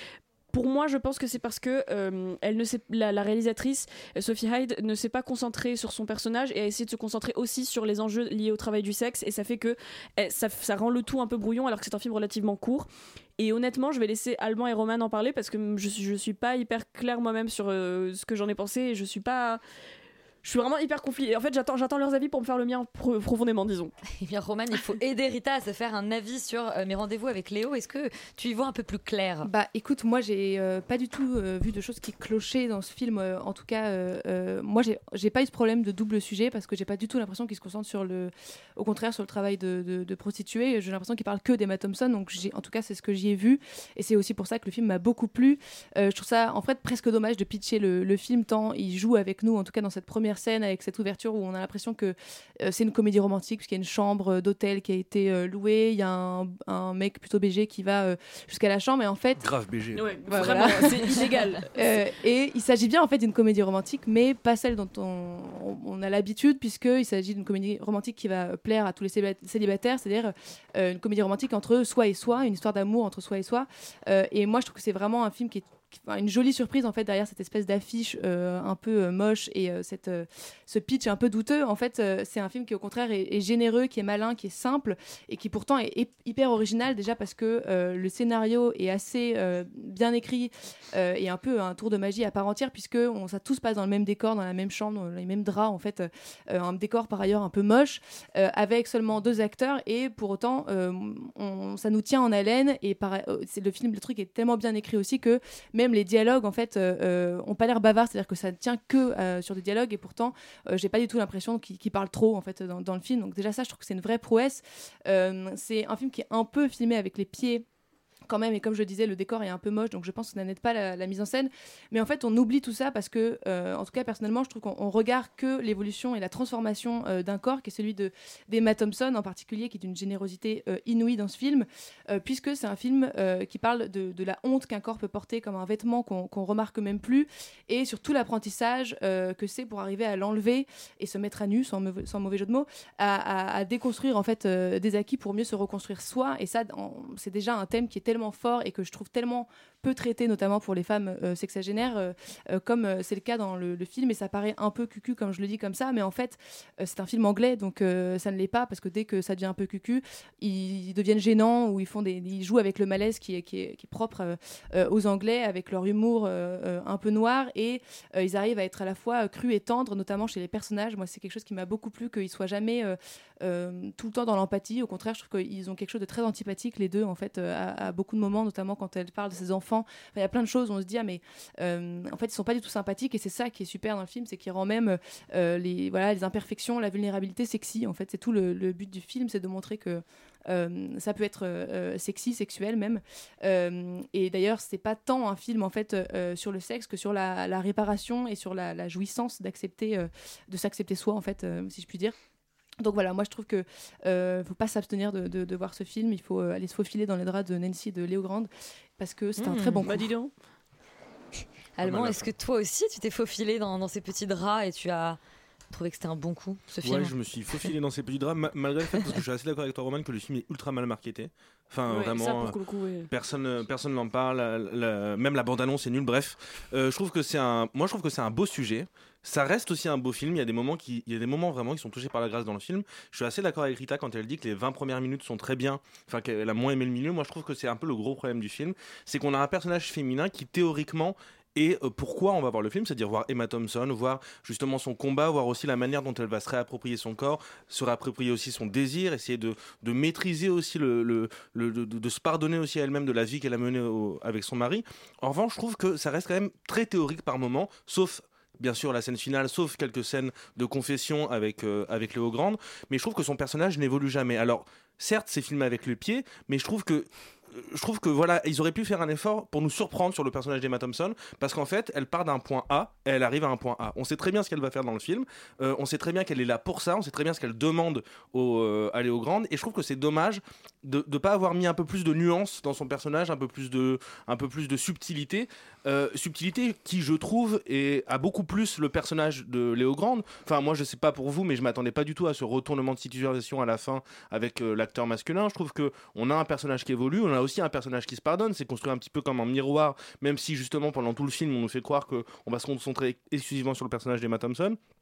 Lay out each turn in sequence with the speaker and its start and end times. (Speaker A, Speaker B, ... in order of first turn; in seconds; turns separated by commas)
Speaker A: 0.5-19.6, Speaker A: 20.4-23.9, Speaker B: 24.2-29.5, Speaker C: 29.4-59.4, Speaker D: 59.4-60.1, Speaker A: 59.9-62.0, Speaker B: 60.3-61.2, Speaker C: 60.3-61.0, Speaker C: 61.7-117.6, Speaker C: 118.3-202.1, Speaker C: 202.8-210.1, Speaker B: 209.4-209.8, Speaker A: 209.8-210.3, Speaker B: 211.8-215.2, Speaker D: 211.8-212.3, Speaker B: 215.7-217.1, Speaker D: 216.8-222.5, Speaker A: 221.9-223.1, Speaker D: 223.1-267.0, Speaker D: 267.6-304.8